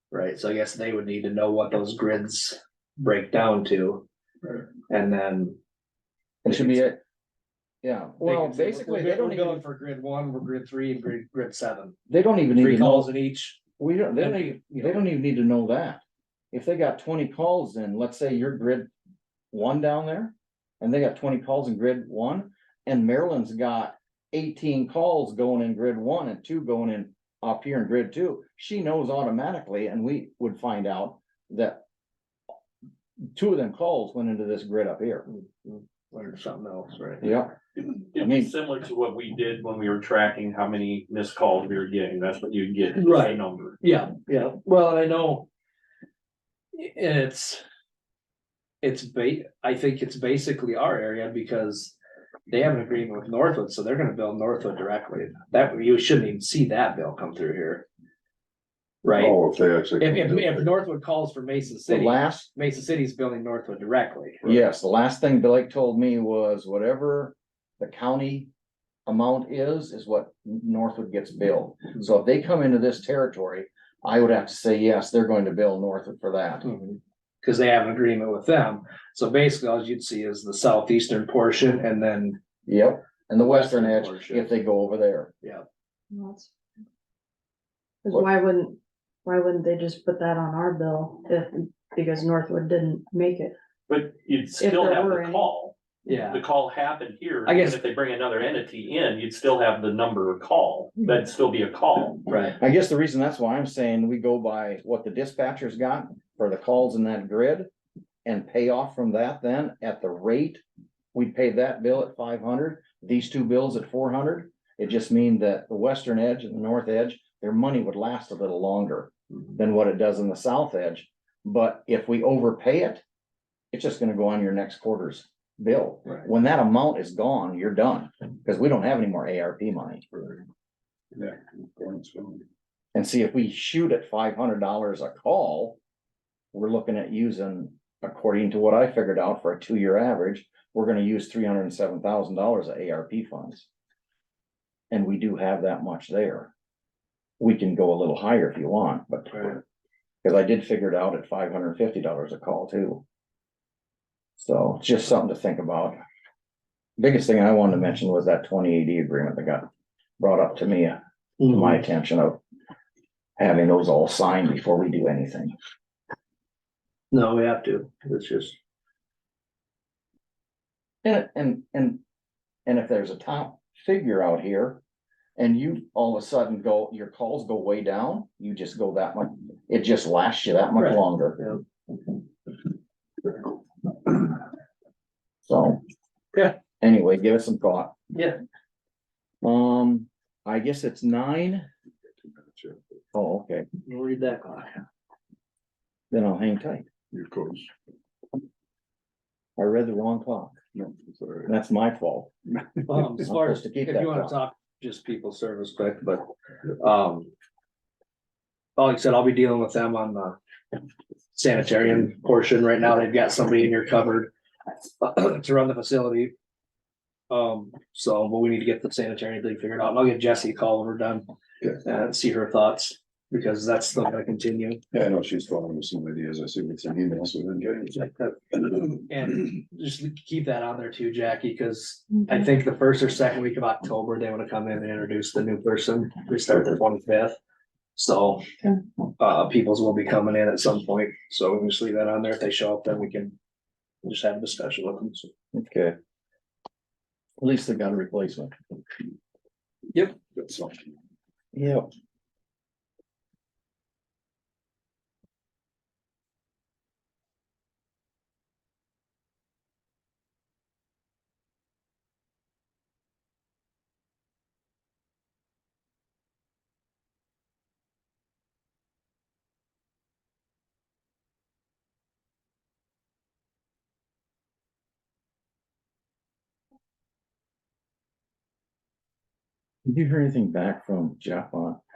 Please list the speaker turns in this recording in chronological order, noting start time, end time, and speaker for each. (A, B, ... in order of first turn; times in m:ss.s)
0:00.1-0:04.0 A
0:04.9-0:05.6 A
0:06.4-0:07.0 B
0:06.5-0:06.9 A
0:07.8-0:09.6 B
0:08.2-0:12.0 A
0:12.1-0:13.1 B
0:12.6-0:13.6 A
0:13.8-0:18.9 B
0:14.2-0:15.0 A
0:19.5-0:31.8 B
0:33.3-0:35.3 B
0:35.3-0:37.3 A
0:37.2-0:37.5 B
0:37.8-0:43.8 C
0:38.2-0:38.5 B
0:43.0-0:45.5 A
0:46.7-0:47.6 A
0:48.8-0:51.9 A
0:52.5-0:57.8 A
0:59.0-0:59.4 A
0:59.1-1:00.7 D
1:00.0-1:04.5 A
1:01.9-1:02.5 B
1:04.4-1:08.5 B
1:09.0-1:16.7 B
1:16.6-1:22.4 A
1:22.6-1:25.3 B
1:23.4-1:24.5 A
1:26.1-1:26.5 E
1:28.0-1:33.5 E
1:33.9-1:42.2 C
1:34.6-1:35.5 E
1:36.0-1:36.4 A
1:37.4-1:37.8 A
1:42.3-1:42.6 A
1:42.6-1:47.7 B
1:48.2-1:50.6 B
1:51.1-2:03.0 B
2:03.7-2:10.0 B
2:10.1-2:10.4 D
2:11.1-2:12.4 D
2:12.9-2:15.8 B
2:16.5-2:23.7 B
2:24.9-2:26.5 B
2:27.4-2:29.6 B
2:30.2-2:33.0 B
2:34.4-2:36.0 B
2:37.0-2:39.7 B
2:40.2-2:42.4 B
2:41.4-2:41.8 A
2:43.4-2:45.5 B
2:47.1-2:48.6 A
2:51.0-2:52.0 B
2:52.6-2:54.8 B
2:55.4-3:01.4 B
3:00.8-3:01.6 A
3:05.5-3:05.8 B
3:06.8-3:08.0 B
3:08.1-3:08.4 A
3:09.4-3:11.7 B
3:12.2-3:12.8 D
3:13.1-3:13.7 B
3:13.8-3:14.8 A
3:16.1-3:16.9 B
3:17.1-3:17.7 D
3:19.6-3:20.6 B
3:20.7-3:21.5 D
3:21.5-3:22.3 B
3:22.9-3:27.3 A
3:23.2-3:24.3 B
3:28.8-3:30.4 A
3:31.3-3:34.3 A
3:35.0-3:36.3 A
3:37.3-3:41.2 A
3:41.8-3:44.8 A
3:44.9-3:48.5 D
3:48.9-3:57.4 A
3:58.0-3:58.4 A
3:59.2-4:03.4 A
4:04.0-4:05.3 A
4:05.5-4:06.0 B
4:07.4-4:08.5 B
4:10.2-4:10.9 D
4:11.5-4:11.9 B
4:39.8-4:41.8 B